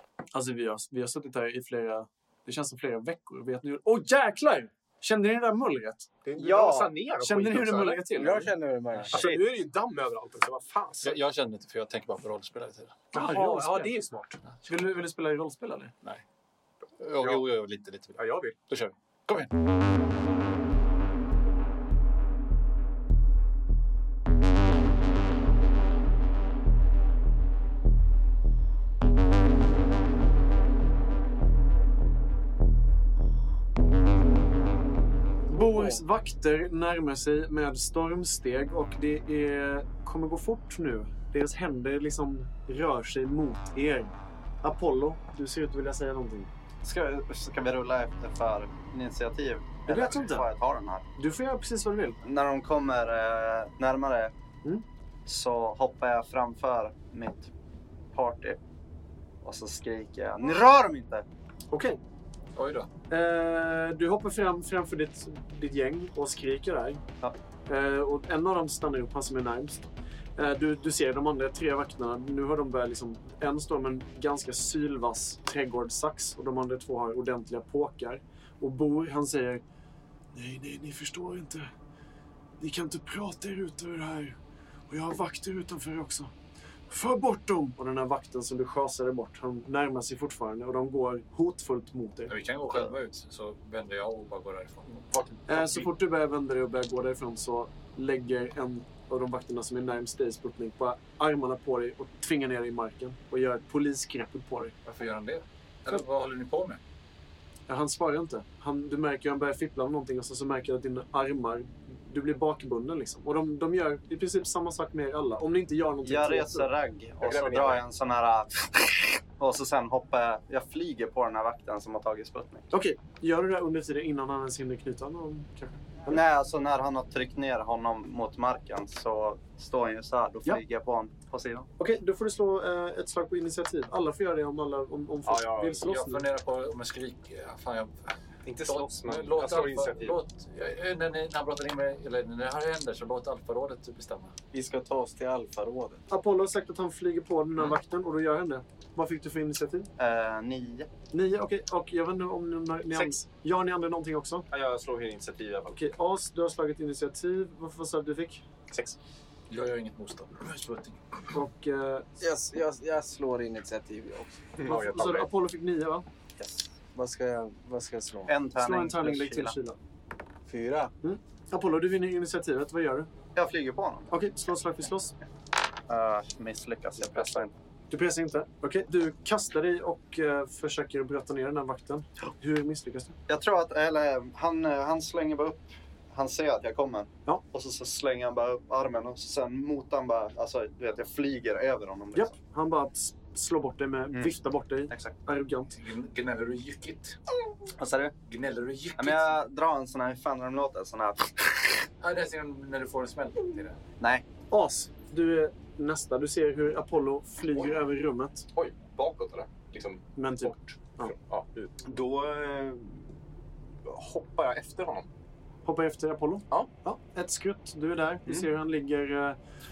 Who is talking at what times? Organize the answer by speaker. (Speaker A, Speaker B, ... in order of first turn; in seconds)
Speaker A: 0.3-8.5, 13.1-13.9, 14.6-15.9, 35.5-46.5, 49.9-50.5, 51.2-52.2, 61.7-62.0, 63.1-67.0, 67.7-79.6, 80.3-81.7, 82.6-84.4, 84.9-86.3, 86.9-92.3, 95.5-104.8, 107.7-116.7, 122.7-126.2, 131.8-136.2, 146.1-149.9, 151.1-154.5, 155.7-158.5, 161.3-162.1, 164.7-166.1, 168.6-169.8, 171.0-173.1, 174.1-175.1, 177.9-183.2, 192.2-195.8, 204.5-208.5, 210.2-211.1, 215.7-219.4
Speaker B: 6.2-8.3, 9.1-11.2, 13.1-14.4, 17.2-17.5, 18.2-18.6, 117.2-117.9, 135.3-135.8, 138.4-140.2, 154.5-155.8, 158.7-159.0, 164.6-165.3, 177.1-177.4, 208.6-213.1, 213.8-215.1
Speaker C: 6.4-6.8, 46.8-51.1, 52.2-54.3, 55.3-57.5, 58.1-58.6, 59.4-61.3, 116.0-122.7, 126.1-131.7, 150.0-150.9, 166.4-166.7, 168.3-169.6, 173.3-174.1, 175.9-177.5, 183.3-192.4, 197.8-198.2, 199.0-201.9
Speaker D: 8.2-9.4, 35.5-36.0, 144.5-146.0, 162.2-164.4, 166.9-168.3, 170.5-170.9
Speaker E: 11.0-13.0, 17.0-19.5, 62.5-62.9, 92.3-95.9, 104.9-106.8, 135.8-144.3, 159.5-161.3, 195.8-197.2, 198.3-199.4, 202.0-203.8